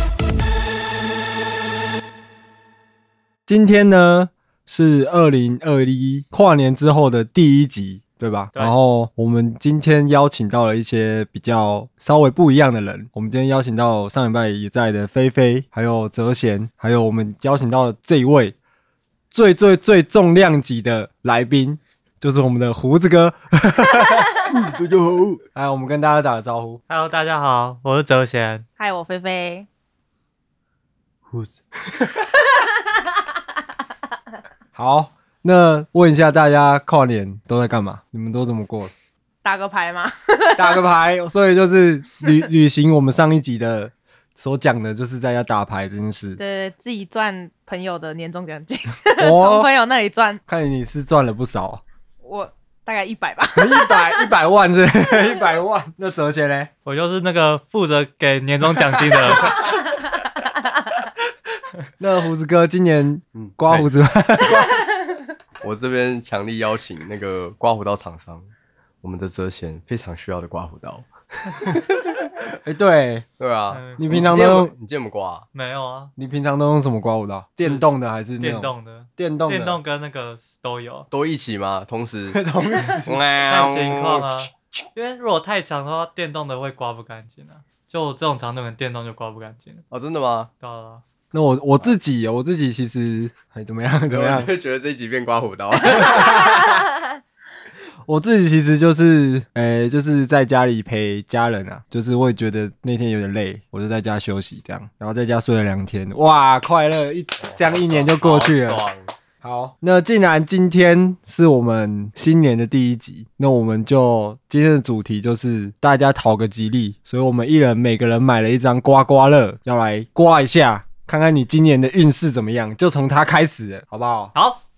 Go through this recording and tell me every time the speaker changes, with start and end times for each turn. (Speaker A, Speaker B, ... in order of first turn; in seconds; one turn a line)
Speaker A: 3.5-18.6
Speaker A: 19.3-24.5
Speaker B: 24.5-25.4
Speaker A: 25.5-26.8
Speaker C: 26.9-28.6
Speaker D: 28.8-29.7
Speaker B: 31.3-31.6
Speaker A: 34.7-38.9
Speaker D: 39.4-40.8
Speaker A: 40.5-46.4
Speaker D: 46.4-50.4
Speaker A: 49.2-49.7
Speaker A: 50.5-51.8
Speaker D: 52.2-54.3
Speaker A: 53.5-56.7
Speaker D: 55.1-55.4
Speaker C: 56.8-59.8
Speaker A: 62.0-64.8
Speaker B: 63.3-63.9
Speaker B: 65.6-68.5
Speaker B: 69.0-72.0
Speaker A: 72.6-73.3
Speaker B: 73.4-75.5
Speaker C: 73.7-74.3
Speaker A: 74.0-74.7
Speaker C: 75.5-76.1
Speaker A: 76.2-79.8
Speaker C: 78.4-81.1
Speaker B: 81.1-82.4
Speaker A: 82.3-83.2
Speaker B: 83.0-84.3
Speaker C: 83.4-89.8
Speaker B: 89.9-90.5
Speaker C: 90.6-91.0
Speaker A: 91.3-94.5
Speaker B: 94.1-96.5
Speaker A: 95.9-96.8
Speaker A: 98.0-108.8
Speaker B: 107.4-109.1
Speaker A: 109.4-124.3
Speaker C: 124.3-124.6